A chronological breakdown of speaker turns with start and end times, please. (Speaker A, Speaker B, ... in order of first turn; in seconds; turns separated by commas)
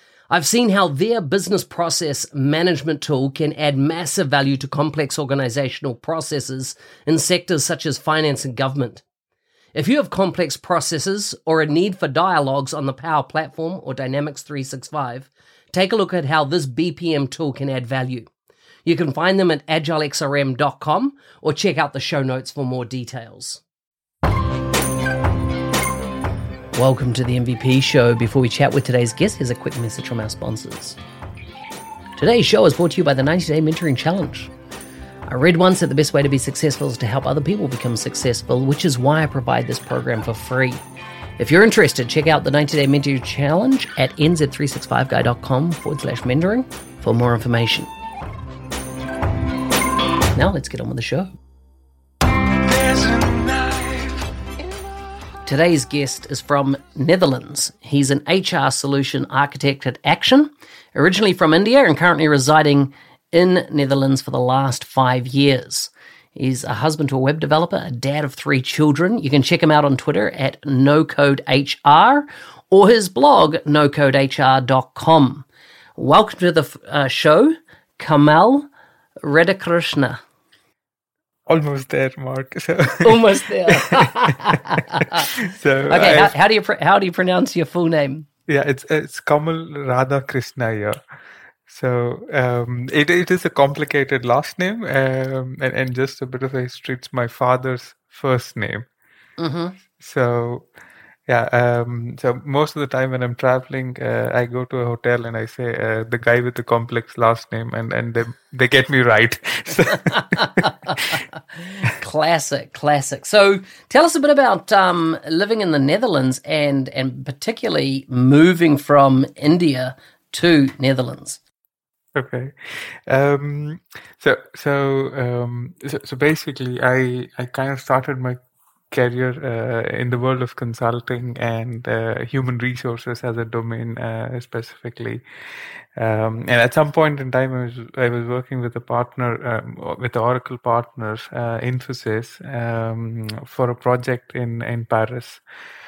Speaker A: 0.3-9.0, Speaker A: 9.8-18.3, Speaker A: 18.9-23.6, Speaker A: 26.7-31.0, Speaker A: 32.2-34.5, Speaker A: 35.3-40.8, Speaker A: 41.4-47.9, Speaker A: 50.3-51.3, Speaker B: 52.6-54.2, Speaker A: 55.5-78.7, Speaker A: 79.2-80.2, Speaker B: 81.5-86.3, Speaker A: 83.0-85.3, Speaker A: 85.9-88.3, Speaker B: 88.5-91.0, Speaker B: 91.7-98.9, Speaker A: 99.4-99.8, Speaker B: 100.0-100.7, Speaker B: 101.3-111.2, Speaker A: 110.6-111.0, Speaker A: 111.5-121.4, Speaker B: 122.2-122.5, Speaker B: 123.1-128.4, Speaker B: 128.9-135.2, Speaker B: 136.0-145.4